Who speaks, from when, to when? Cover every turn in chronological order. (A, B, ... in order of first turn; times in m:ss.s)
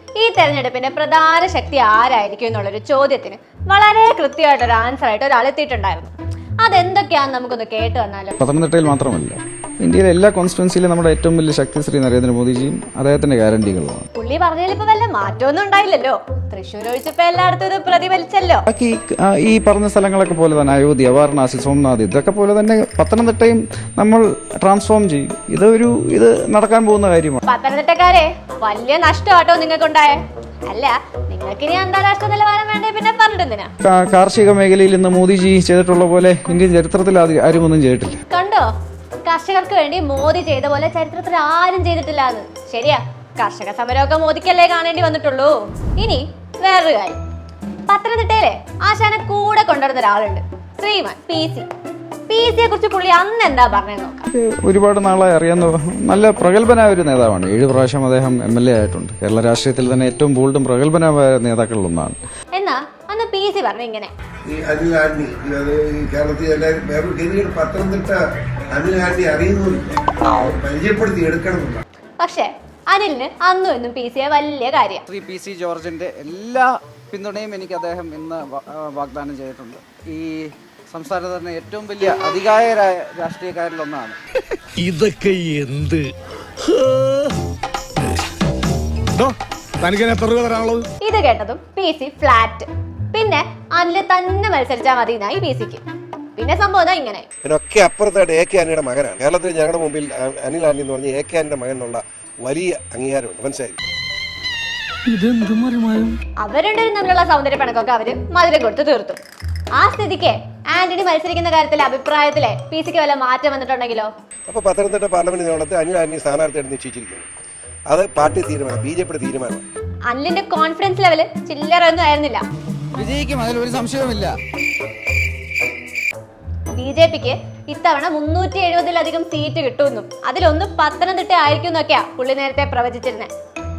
0:00.2-0:08.4 A
0:08.4-0:14.1 B
0:14.1-0:18.6 A
0:18.7-0:27.4 B
0:27.4-0:33.7 A
0:33.8-0:38.2 B
0:38.3-0:38.7 A
0:39.2-0:47.2 A
0:47.9-0:51.7 A
0:52.3-0:54.3 A
0:54.3-1:02.2 B
1:02.5-1:04.1 A
1:04.4-1:08.2 C
1:08.7-1:11.8 C
1:12.2-1:15.0 A
1:15.1-1:24.2 B
1:24.8-1:26.0 D
1:29.2-1:30.8 D
1:31.0-1:35.8 A
1:36.4-1:37.2 A
1:37.4-1:43.8 C
1:46.4-1:49.2 A
1:49.7-1:54.1 A
1:54.5-1:57.2 C
1:57.9-1:59.6 C
2:00.1-2:02.4 A
2:02.9-2:04.4 B
2:06.7-2:13.3 A